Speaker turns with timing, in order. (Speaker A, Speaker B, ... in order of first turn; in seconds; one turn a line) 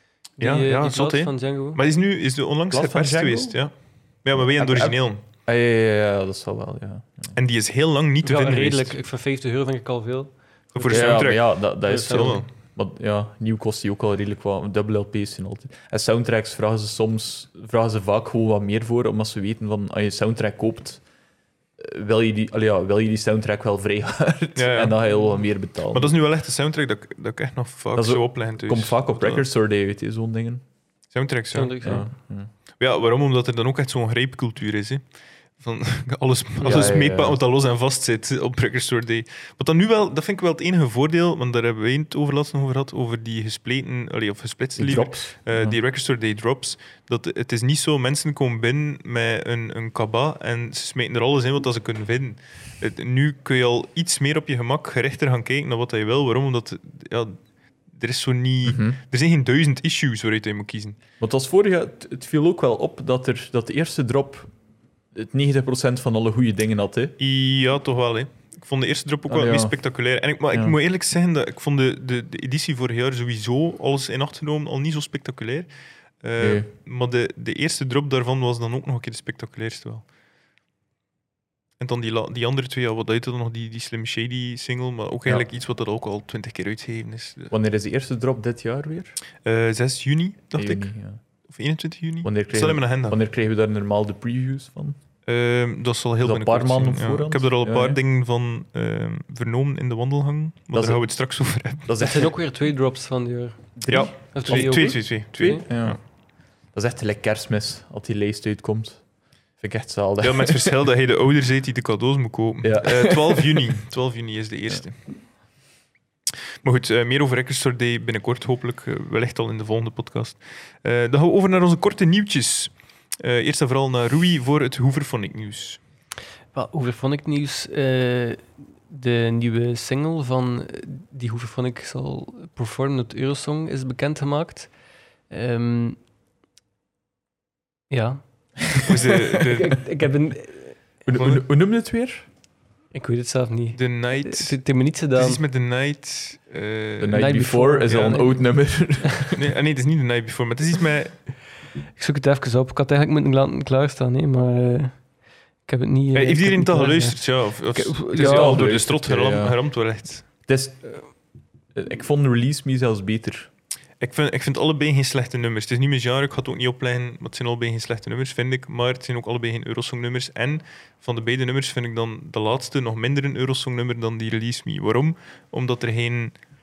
Speaker A: 0.4-1.8
Speaker B: 0.4-5.2
Speaker C: 2.7-3.6
Speaker C: 4.3-7.4
Speaker B: 7.3-9.0
Speaker A: 8.2-12.4
Speaker B: 10.7-12.5
Speaker C: 10.9-21.0
Speaker C: 21.8-26.2
Speaker B: 24.6-25.0
Speaker B: 25.9-29.4
Speaker C: 27.9-30.6
Speaker B: 31.1-31.8
Speaker A: 31.5-32.1
Speaker C: 31.8-32.5
Speaker B: 32.8-57.4
Speaker C: 36.6-37.4
Speaker C: 44.8-45.8
Speaker B: 57.9-61.0
Speaker C: 58.6-59.0
Speaker C: 61.2-64.5
Speaker C: 65.1-67.2
Speaker B: 67.2-75.7
Speaker C: 69.3-70.8
Speaker B: 76.2-80.1
Speaker C: 76.4-76.7
Speaker B: 81.8-87.5
Speaker C: 87.5-89.2
Speaker B: 89.4-90.9
Speaker C: 90.5-91.2
Speaker B: 91.5-93.2
Speaker C: 92.2-95.0
Speaker B: 95.3-101.9
Speaker C: 96.2-98.0
Speaker C: 100.7-101.1
Speaker C: 101.8-102.3
Speaker A: 102.0-105.6
Speaker C: 103.8-106.0
Speaker B: 103.9-106.0
Speaker C: 106.7-109.0
Speaker C: 109.6-110.8
Speaker B: 110.2-115.0
Speaker C: 112.6-113.7
Speaker B: 116.6-125.8
Speaker A: 126.5-134.7
Speaker A: 135.3-136.0
Speaker A: 137.9-138.8
Speaker B: 138.9-139.8
Speaker A: 139.3-141.0
Speaker C: 141.1-142.3
Speaker B: 141.2-141.4
Speaker A: 142.9-145.4
Speaker B: 143.8-144.6
Speaker B: 145.1-147.3
Speaker C: 147.0-149.4
Speaker A: 147.1-148.9
Speaker B: 147.9-148.1
Speaker B: 149.3-151.2
Speaker A: 152.0-155.1
Speaker A: 155.7-158.7
Speaker B: 156.1-160.3
Speaker C: 158.2-161.0
Speaker C: 161.8-163.5
Speaker B: 164.0-176.3